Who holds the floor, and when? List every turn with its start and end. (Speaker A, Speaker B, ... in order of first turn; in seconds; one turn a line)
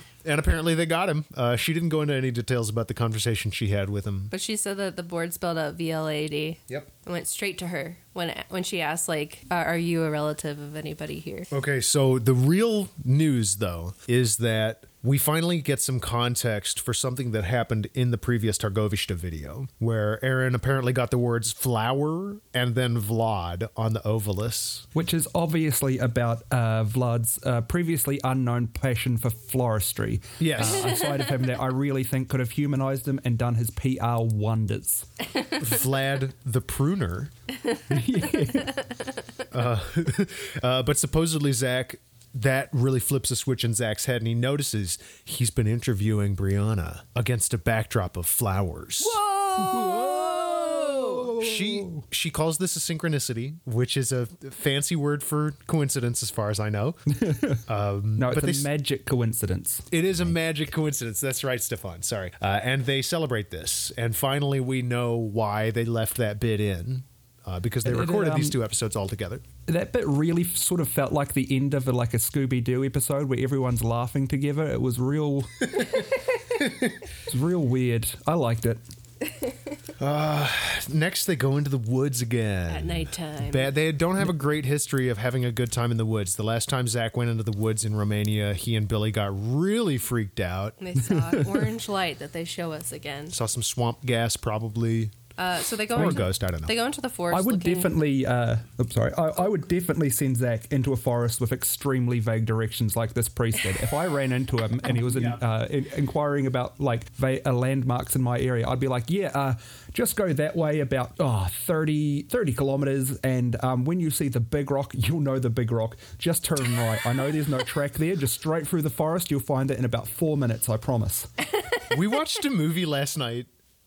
Speaker A: 0.2-4.3
Speaker B: 4.3-11.5
Speaker A: 11.5-24.9
Speaker C: 24.9-35.1
Speaker A: 30.4-30.9
Speaker B: 30.6-31.4
Speaker A: 35.6-37.3
Speaker C: 37.9-38.8
Speaker B: 38.4-38.9
Speaker A: 39.5-49.2
Speaker C: 49.0-52.0
Speaker B: 49.4-51.3
Speaker A: 51.4-58.7
Speaker C: 57.2-57.6
Speaker C: 58.1-60.3
Speaker A: 59.9-69.4
Speaker C: 67.8-68.6
Speaker C: 69.7-75.7
Speaker C: 77.3-78.8
Speaker A: 80.0-90.8
Speaker B: 82.7-83.7
Speaker B: 90.8-93.3
Speaker C: 91.0-91.6
Speaker A: 93.3-95.1
Speaker B: 95.4-97.9
Speaker A: 95.9-96.7
Speaker C: 97.3-121.3
Speaker A: 105.1-105.4
Speaker A: 121.9-123.5